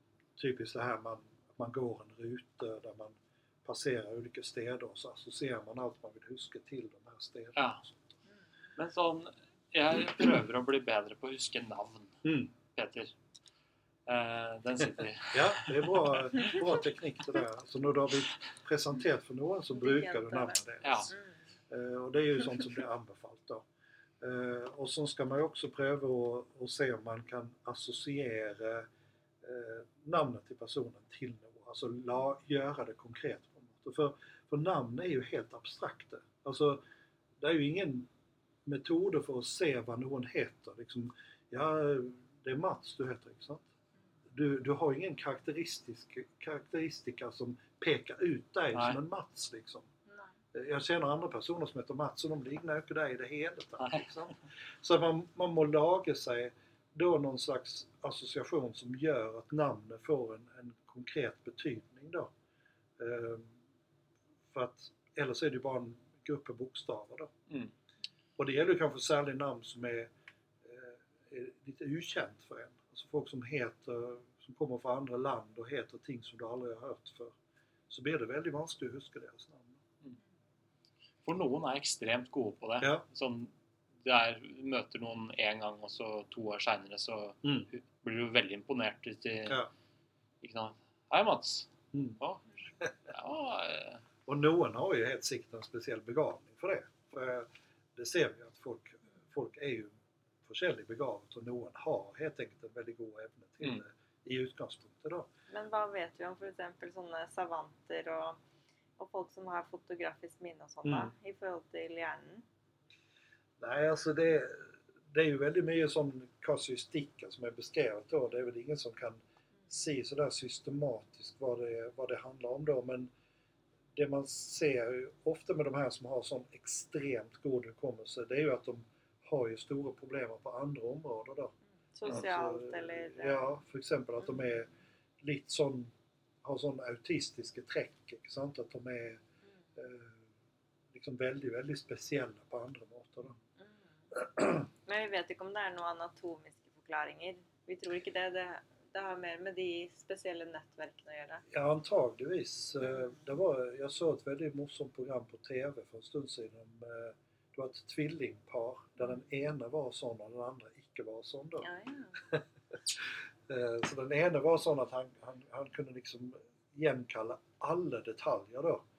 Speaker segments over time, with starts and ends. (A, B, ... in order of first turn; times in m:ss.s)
0:00.4-0:08.2 A
0:08.8-0:13.1 B
0:12.2-0:12.5 A
0:14.0-0:16.6 B
0:15.3-0:21.1 A
0:19.7-0:21.4 C
0:20.8-0:21.1 B
0:21.7-0:23.6 A
0:24.2-0:28.9 A
0:29.4-0:36.8 A
0:37.4-0:38.1 A
0:38.6-0:43.6 A
0:44.3-0:49.9 A
0:48.7-0:49.0 B
0:50.5-1:02.3 A
0:53.8-0:54.1 B
1:03.0-1:03.6 A
1:04.5-1:07.3 A
1:08.4-1:10.1 A
1:10.6-1:17.3 A
1:17.9-1:19.8 A
1:21.2-1:29.6 B
1:27.4-1:27.7 A
1:30.4-1:32.4 B
1:31.9-1:32.2 A
1:33.1-1:34.0 B
1:34.2-1:45.3 A
1:45.5-1:48.4 C
1:49.0-1:52.4 C
1:50.8-1:51.1 A
1:53.6-2:03.1 A
2:03.9-2:11.5 A
2:11.9-2:13.4 C
2:12.0-2:19.2 A
2:19.8-2:20.3 A
2:20.9-2:23.4 A
2:24.1-2:24.7 A
2:24.8-2:31.4 C
2:31.5-2:41.7 A
2:41.6-2:42.2 C
2:42.2-2:48.8 A